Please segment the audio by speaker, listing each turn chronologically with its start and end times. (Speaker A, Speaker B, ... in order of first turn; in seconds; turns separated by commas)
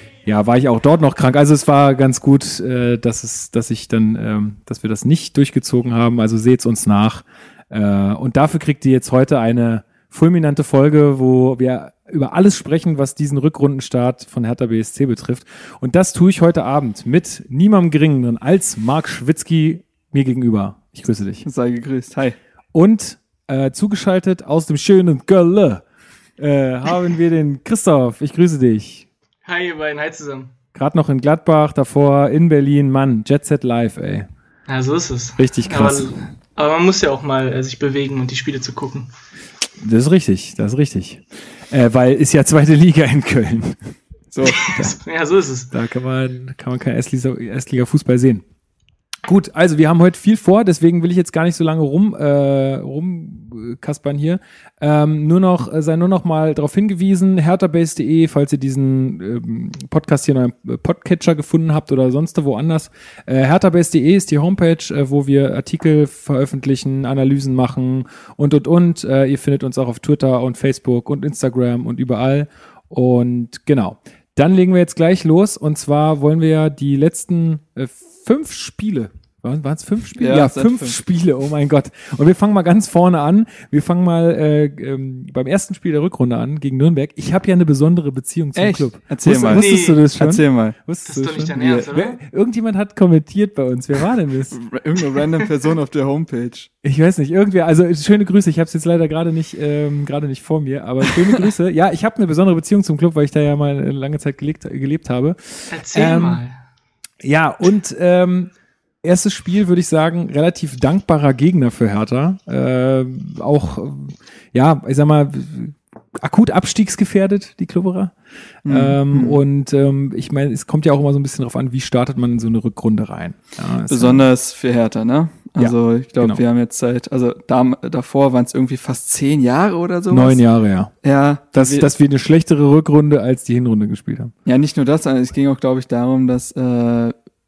Speaker A: 0.2-21.5, Speaker B: 21.4-22.4, Speaker A: 22.7-25.8, Speaker A: 26.4-29.1, Speaker C: 29.4-30.5, Speaker A: 30.7-34.3, Speaker C: 34.7-39.1, Speaker A: 35.4-36.2, Speaker A: 39.8-44.0, Speaker B: 44.3-44.7, Speaker C: 44.5-45.7, Speaker A: 44.6-44.9, Speaker A: 45.7-48.4, Speaker A: 49.2-94.6, Speaker B: 80.2-81.0, Speaker B: 88.5-90.8, Speaker C: 89.5-90.0, Speaker C: 91.1-92.2, Speaker B: 94.5-96.7, Speaker A: 96.8-106.4, Speaker C: 105.7-106.5, Speaker A: 107.2-108.5, Speaker A: 109.0-118.1, Speaker B: 118.7-119.4, Speaker A: 118.7-124.3, Speaker B: 123.9-130.4, Speaker A: 125.6-126.4, Speaker A: 130.1-130.9, Speaker B: 131.0-131.9, Speaker A: 131.5-134.3, Speaker B: 134.5-137.1